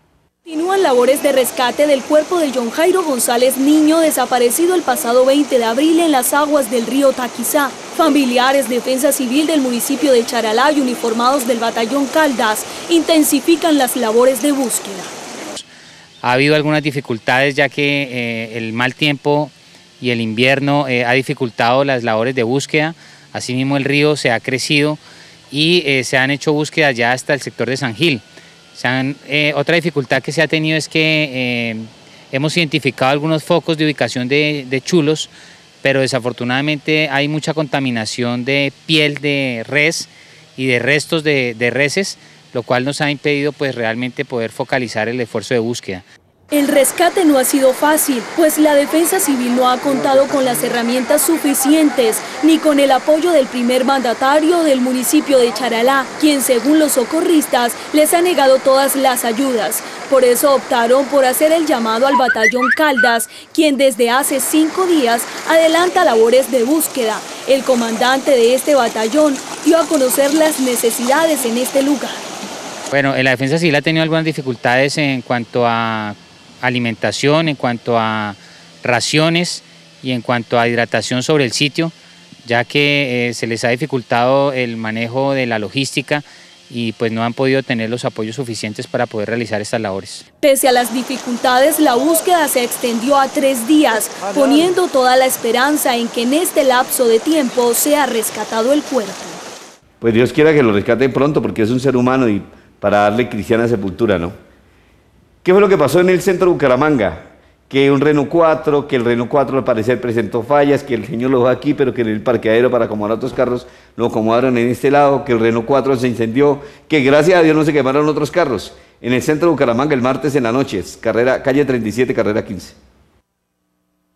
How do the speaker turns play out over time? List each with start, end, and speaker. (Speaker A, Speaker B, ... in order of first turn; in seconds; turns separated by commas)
Speaker A: 0.5-15.1, Speaker B: 16.2-25.0, Speaker B: 25.5-28.2, Speaker B: 28.8-35.3, Speaker B: 35.8-46.0, Speaker A: 46.5-72.2, Speaker B: 72.9-81.9, Speaker B: 82.5-90.2, Speaker A: 90.4-99.4, Speaker C: 100.0-104.3, Speaker C: 105.4-122.8